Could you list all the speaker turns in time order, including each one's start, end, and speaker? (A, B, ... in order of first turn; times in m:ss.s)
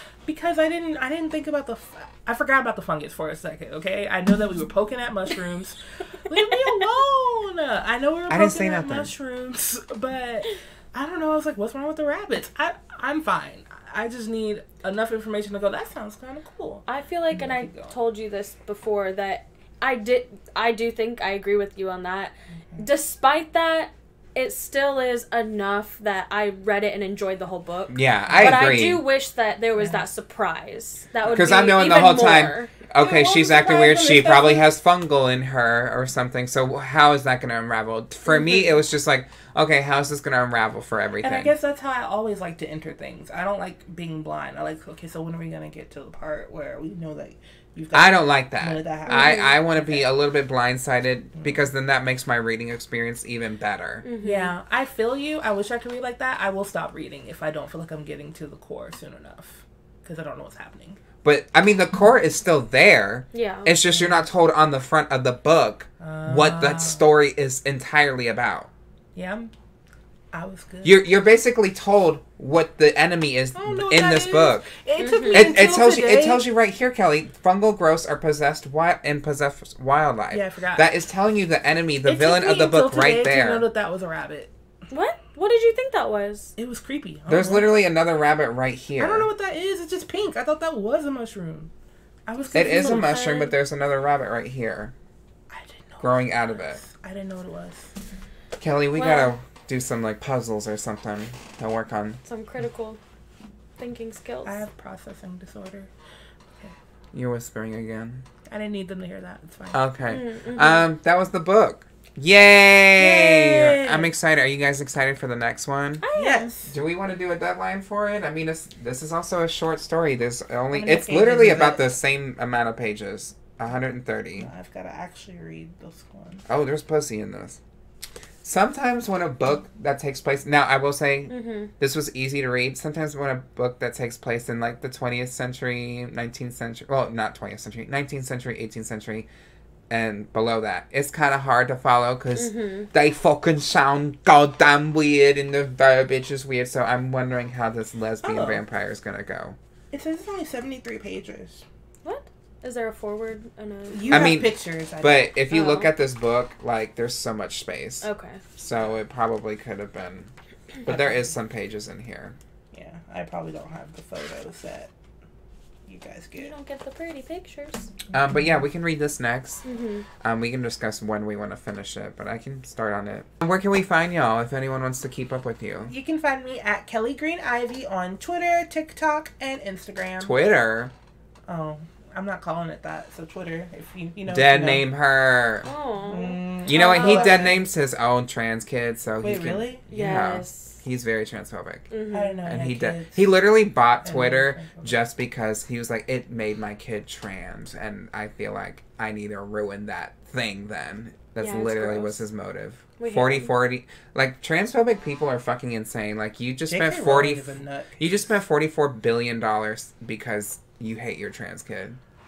0:00.2-0:17.9 A
0:06.3-0:06.8 B
0:08.3-0:09.1 C
0:16.9-0:32.7 B
0:27.9-0:29.0 C
0:31.2-0:31.5 A
0:31.3-0:41.5 C
0:33.0-0:34.7 A
0:38.3-0:38.6 B
0:41.2-0:50.1 A
0:47.9-0:54.0 C
0:49.1-0:49.5 B
0:51.4-0:51.6 A
0:54.0-0:54.5 B
0:54.2-1:01.0 A
1:01.2-1:08.7 C
1:03.3-1:03.7 B
1:06.0-1:07.0 A
1:09.1-1:09.5 A
1:10.3-1:11.0 A
1:10.8-1:14.7 C
1:13.5-1:16.4 A
1:15.0-1:15.5 B
1:15.3-1:23.7 C
1:20.3-1:20.9 A
1:22.0-1:24.5 A
1:24.9-1:26.5 B
1:26.6-1:27.7 A
1:27.3-1:29.3 C
1:29.0-1:31.7 A
1:32.3-1:33.1 A
1:32.5-1:34.9 C
1:32.6-1:33.5 B
1:35.5-1:37.9 A
1:36.0-1:36.8 C
1:38.6-1:42.2 C
1:38.9-1:39.3 B
1:42.2-1:43.0 B
1:43.8-1:44.6 B
1:44.4-1:45.9 A
1:47.1-1:48.2 C
1:48.4-1:49.8 A
1:49.7-1:56.0 C
1:50.1-1:50.9 B
1:53.0-1:54.1 A
1:56.0-1:56.5 B
1:56.2-1:56.7 A
1:56.7-2:04.5 C
2:00.7-2:01.8 A
2:04.4-2:06.4 A
2:06.5-2:07.6 C
2:08.4-2:19.3 C
2:11.3-2:11.7 B
2:19.9-2:29.6 C
2:22.3-2:22.9 B
2:28.2-2:28.6 A
2:29.9-2:31.6 A
2:32.0-2:34.3 B
2:33.9-2:35.3 A
2:34.1-2:40.3 C
2:35.5-2:35.9 B
2:38.0-2:38.4 B
2:40.8-2:42.4 C
2:40.8-2:41.3 A
2:42.7-2:44.9 A
2:45.9-2:46.5 A
2:46.4-2:47.9 B
2:48.1-2:49.6 C
2:48.3-2:48.6 A
2:49.6-2:50.0 B
2:50.2-2:55.9 C
2:55.9-3:00.3 A
3:00.2-3:00.9 C
3:01.5-3:04.8 A
3:04.3-3:05.7 C
3:05.6-3:07.5 B
3:06.1-3:07.6 A
3:06.6-3:11.9 C
3:09.2-3:09.9 A
3:09.9-3:10.8 B
3:11.9-3:12.4 B
3:12.1-3:13.3 A
3:12.5-3:32.0 C
3:14.0-3:15.0 A
3:21.4-3:22.2 B
3:23.0-3:23.5 B
3:26.7-3:28.2 A